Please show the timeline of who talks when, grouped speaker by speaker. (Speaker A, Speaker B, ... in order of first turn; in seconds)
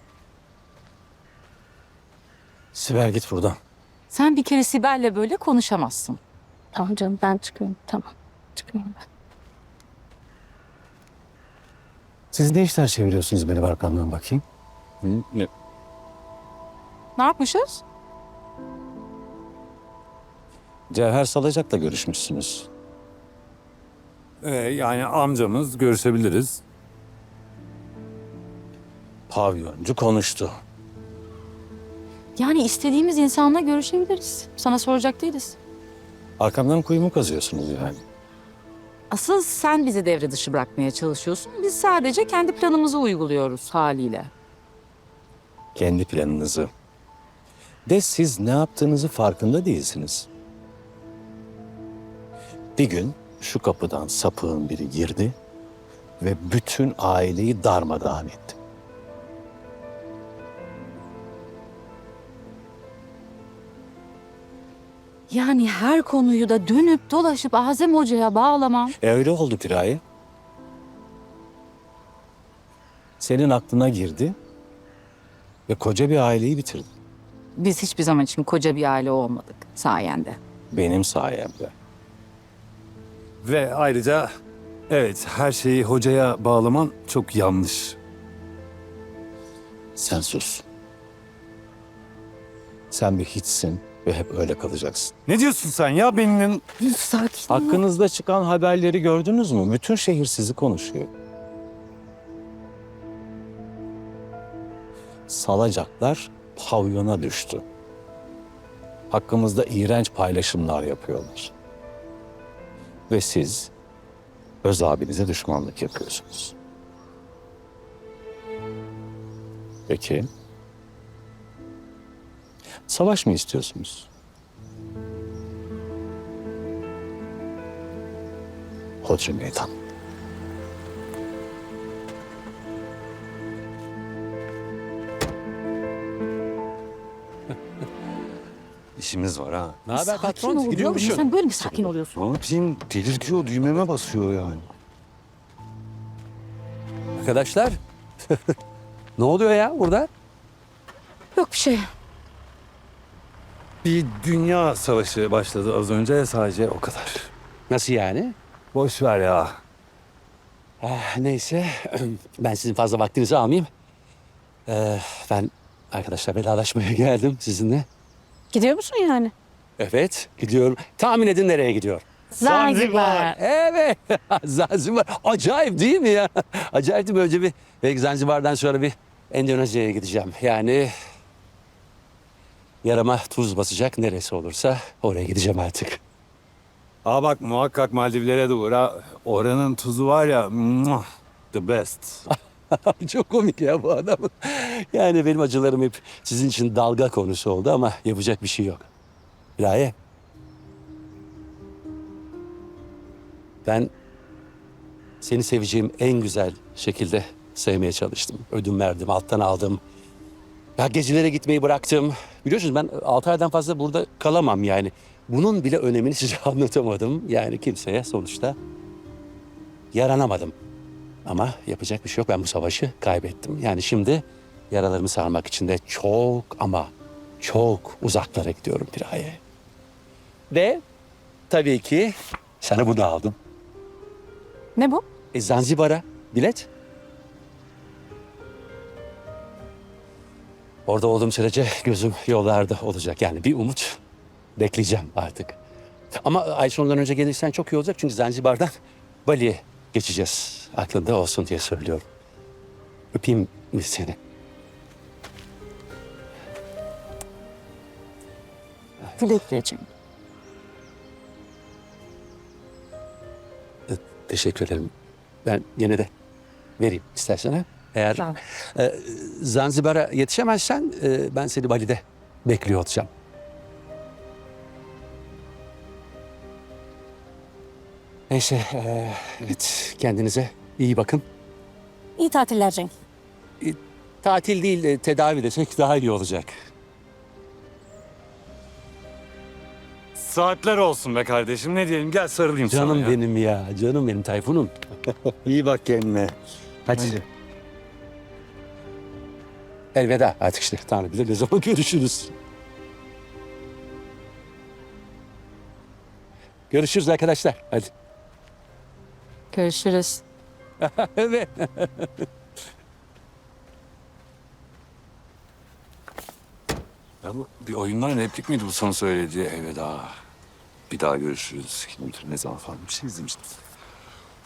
Speaker A: 2.7-3.6, 12.3-14.4, 15.1-15.5, 20.9-22.7, 29.3-30.5, 36.4-38.0, 45.8-46.7, 47.9-50.3, 52.8-55.4, 56.2-58.6, 69.0-70.0, 73.2-74.4, 75.7-76.9, 80.7-81.7, 90.0-90.6, 92.9-95.1, 97.5-101.1, 105.3-107.7, 109.1-111.5, 113.1-113.7, 114.6-116.6, 119.9-120.3, 122.9-124.1, 129.0-129.7, 317.2-317.8, 321.6-323.4
Speaker B: 4.1-6.2, 17.2-17.8, 32.4-35.6, 39.1-44.3, 65.3-69.0, 77.6-80.4, 96.8-97.8, 139.9-142.2, 151.3-151.9, 234.8-235.0, 309.5-310.2
Speaker C: 6.7-9.0, 168.5-169.3, 172.4-173.4, 259.2-259.8, 282.2-282.9
Speaker D: 24.4-26.6, 83.4-84.3, 84.9-88.0, 95.3-96.6, 139.0-139.8, 142.2-144.7, 153.8-157.3, 158.7-159.6, 172.4-173.3, 187.1-191.0, 191.5-192.3, 290.2-293.2, 295.4-296.4, 317.5-320.1, 320.9-322.1
Speaker E: 139.9-141.3, 147.2-147.8, 149.2-150.1, 157.7-158.4, 160.8-163.7, 164.7-167.9, 169.8-172.0, 173.4-180.9, 182.8-186.0, 192.3-198.9, 199.6-199.9, 203.7-203.9, 205.2-209.8, 210.8-218.6, 219.9-220.6, 221.2-229.4, 230.5-230.8, 231.5-233.4, 235.3-236.7, 240.9-244.0, 244.6-245.6, 246.2-248.7, 249.3-252.1, 253.1-254.2, 263.9-264.9, 265.4-266.1, 266.8-273.1, 278.3-281.2, 283.6-286.5, 292.7-295.1, 296.9-297.2, 299.9-302.3, 306.7-307.9, 310.8-312.3